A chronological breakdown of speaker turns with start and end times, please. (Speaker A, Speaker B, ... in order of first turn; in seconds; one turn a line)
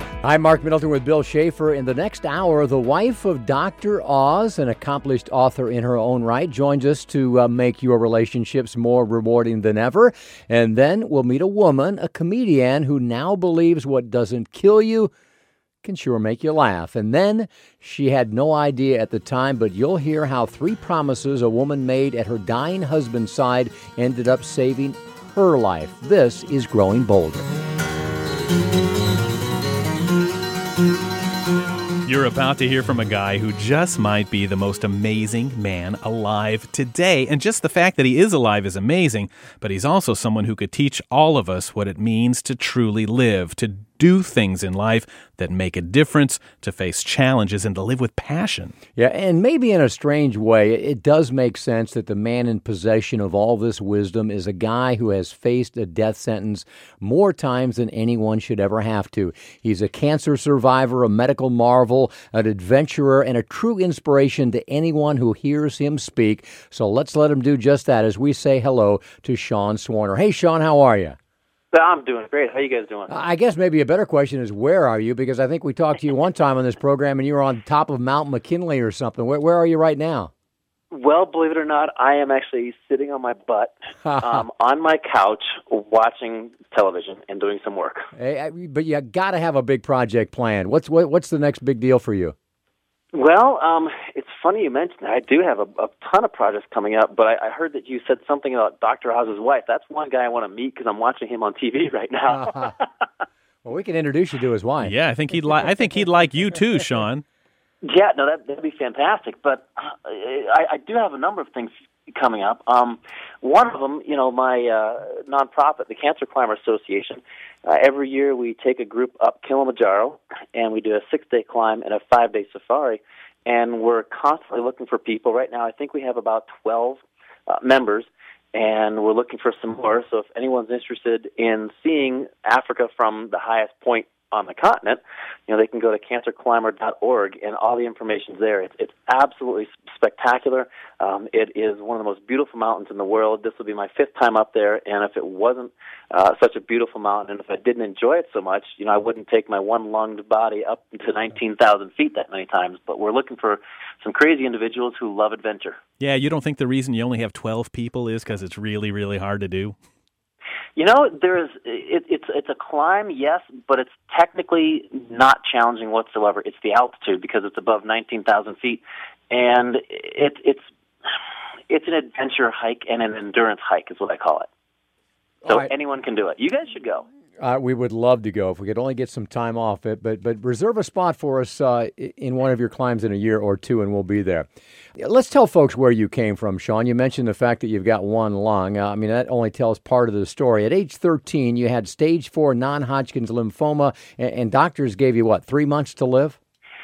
Speaker A: 0.2-15.1
Speaker A: 15.8-27.5
Speaker B: 32.0-48.7
Speaker A: 49.0-71.2
Speaker C: 71.7-73.1
Speaker A: 73.1-80.3
Speaker C: 80.9-88.0
Speaker A: 84.0-84.4
Speaker A: 88.1-92.3
Speaker C: 93.1-102.8
Speaker A: 102.3-102.7
Speaker A: 103.6-104.9
Speaker B: 104.8-107.2
Speaker C: 107.8-155.8
Speaker B: 156.0-159.8
Speaker C: 160.8-170.6
Speaker C: 171.7-174.5
Speaker A: 175.4-175.7
Speaker C: 175.4-177.1
Speaker A: 177.4-184.5
Speaker A: 185.0-196.4